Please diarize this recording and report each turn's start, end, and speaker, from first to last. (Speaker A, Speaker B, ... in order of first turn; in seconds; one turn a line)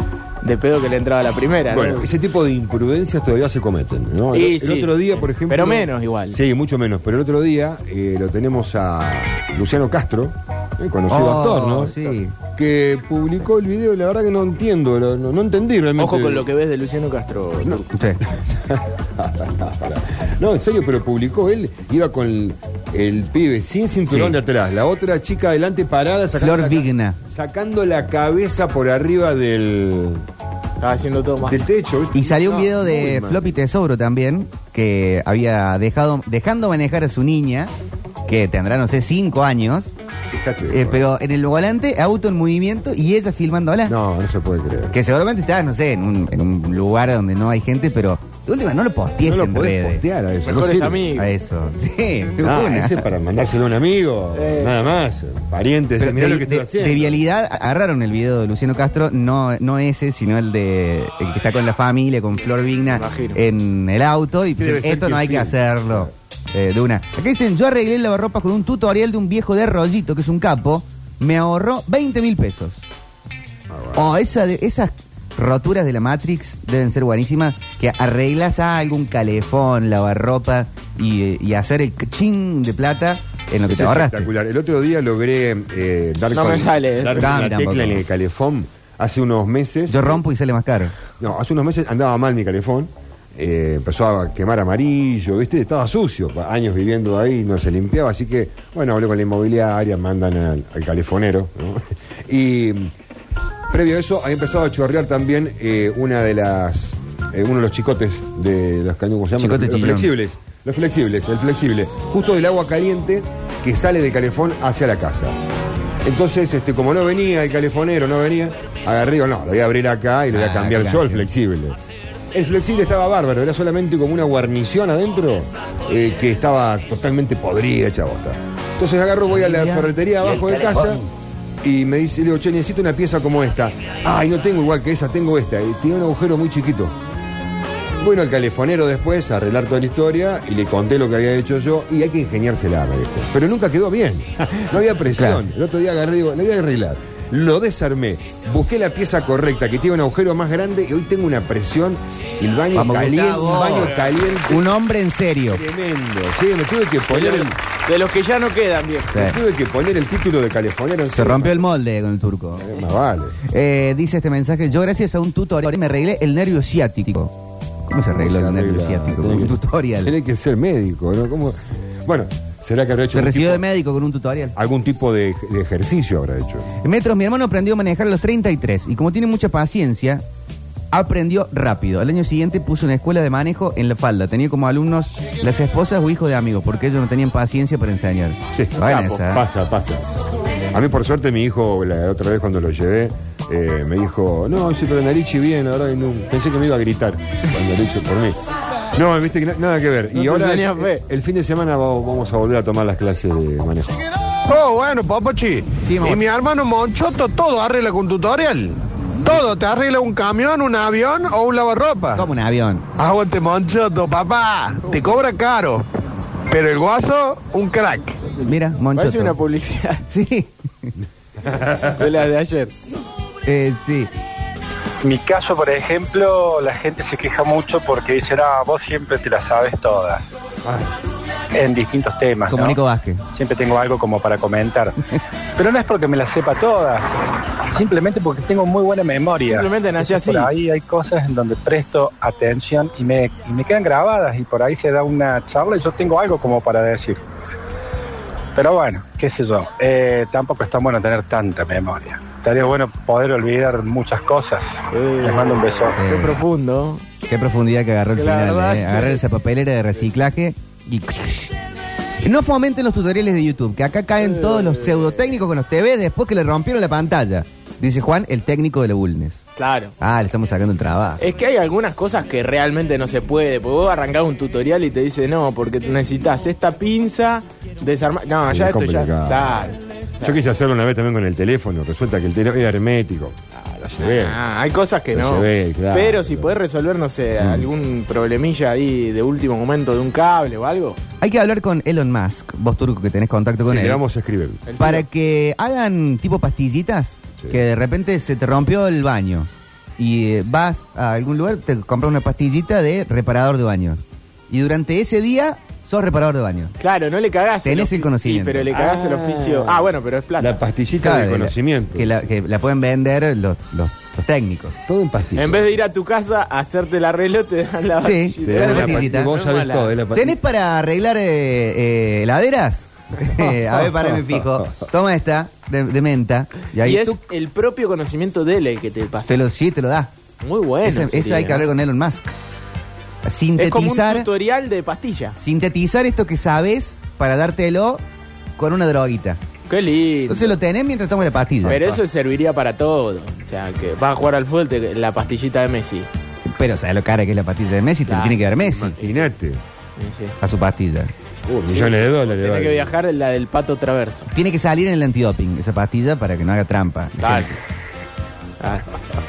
Speaker A: 0.4-2.1
Speaker B: 1.7-16.4
Speaker A: 4.3-6.4
Speaker C: 11.1-12.3
Speaker A: 16.0-17.9
Speaker C: 17.9-18.2
Speaker B: 18.7-30.2
Speaker C: 24.1-24.4
Speaker C: 26.4-27.2
Speaker A: 30.8-31.6
Speaker B: 31.4-33.5
Speaker C: 32.1-37.7
Speaker C: 38.2-39.9
Speaker B: 40.3-41.0
Speaker C: 40.7-43.9
Speaker B: 43.9-44.9
Speaker C: 44.9-50.0
Speaker B: 49.2-51.1
Speaker A: 50.4-51.3
Speaker C: 51.1-53.1
Speaker B: 52.4-57.2
Speaker A: 54.4-54.7
Speaker C: 56.0-72.9
Speaker A: 62.9-63.4
Speaker B: 64.5-66.1
Speaker B: 73.7-74.0
Speaker C: 74.0-84.3
Speaker B: 83.7-90.2
Speaker A: 86.3-87.4
Speaker C: 87.2-88.1
Speaker C: 89.9-90.9
Speaker B: 91.2-102.9
Speaker B: 103.7-115.3
Speaker C: 109.4-110.1
Speaker B: 116.0-121.8
Speaker C: 120.3-121.3
Speaker B: 122.3-131.0
Speaker C: 129.3-131.0
Speaker B: 131.6-136.9
Speaker B: 138.0-154.8
Speaker C: 145.1-145.4
Speaker C: 152.7-153.9
Speaker A: 153.8-154.2
Speaker C: 154.4-155.6
Speaker B: 155.5-157.5
Speaker A: 157.1-159.2
Speaker C: 159.1-159.4
Speaker B: 159.1-161.6
Speaker C: 161.1-162.7
Speaker B: 162.6-163.4
Speaker C: 163.5-167.3
Speaker C: 167.9-170.1
Speaker B: 168.2-173.6
Speaker C: 173.1-174.5
Speaker B: 174.6-176.7
Speaker C: 176.8-180.2
Speaker C: 180.9-189.4
Speaker B: 188.5-190.0
Speaker A: 188.8-189.3
Speaker B: 190.7-198.4
Speaker B: 198.9-204.0
Speaker A: 200.1-201.0
Speaker D: 204.5-212.3
Speaker C: 205.8-206.2
Speaker C: 212.1-212.8
Speaker D: 212.9-215.8
Speaker D: 216.5-218.2
Speaker C: 218.4-219.3
Speaker A: 218.9-220.0
Speaker C: 220.1-220.9
Speaker B: 221.4-222.0
Speaker A: 221.9-222.7
Speaker C: 223.4-224.1
Speaker E: 225.0-230.2
Speaker E: 231.5-232.8
Speaker C: 232.5-233.2
Speaker E: 233.3-234.9
Speaker E: 235.6-237.1
Speaker E: 237.7-247.2
Speaker A: 239.4-240.5
Speaker E: 248.5-256.0
Speaker A: 254.9-257.0
Speaker C: 256.0-256.4
Speaker C: 257.3-261.5
Speaker A: 258.1-259.2
Speaker C: 262.2-269.4
Speaker A: 264.2-265.2
Speaker A: 269.6-269.9
Speaker C: 270.0-271.2
Speaker A: 271.2-280.4
Speaker B: 278.4-279.6
Speaker B: 280.2-284.4
Speaker A: 284.0-291.0
Speaker B: 285.1-286.5
Speaker B: 287.4-287.7
Speaker C: 291.2-294.0
Speaker B: 293.7-294.6
Speaker A: 294.6-295.1
Speaker C: 294.8-306.7
Speaker A: 306.8-310.6
Speaker C: 307.6-308.7
Speaker B: 308.7-309.9
Speaker B: 310.4-312.2
Speaker C: 311.0-314.8
Speaker B: 314.9-315.7
Speaker A: 315.4-319.9
Speaker C: 318.0-319.3
Speaker B: 318.4-320.4
Speaker C: 320.1-327.2
Speaker B: 323.8-324.4
Speaker A: 326.8-329.4
Speaker C: 329.3-330.1
Speaker A: 330.4-331.6
Speaker C: 330.8-332.3
Speaker C: 333.2-334.3
Speaker A: 333.6-335.4
Speaker C: 335.4-338.0
Speaker C: 338.6-339.4
Speaker A: 339.7-340.6
Speaker C: 340.3-342.0
Speaker A: 341.6-346.1
Speaker C: 346.4-349.0
Speaker A: 348.1-348.4
Speaker B: 348.6-349.6
Speaker A: 349.0-349.3
Speaker A: 350.0-350.4
Speaker C: 350.4-351.1
Speaker B: 351.5-352.9
Speaker A: 351.6-354.3
Speaker C: 354.3-357.5
Speaker A: 357.2-357.6
Speaker A: 358.6-358.9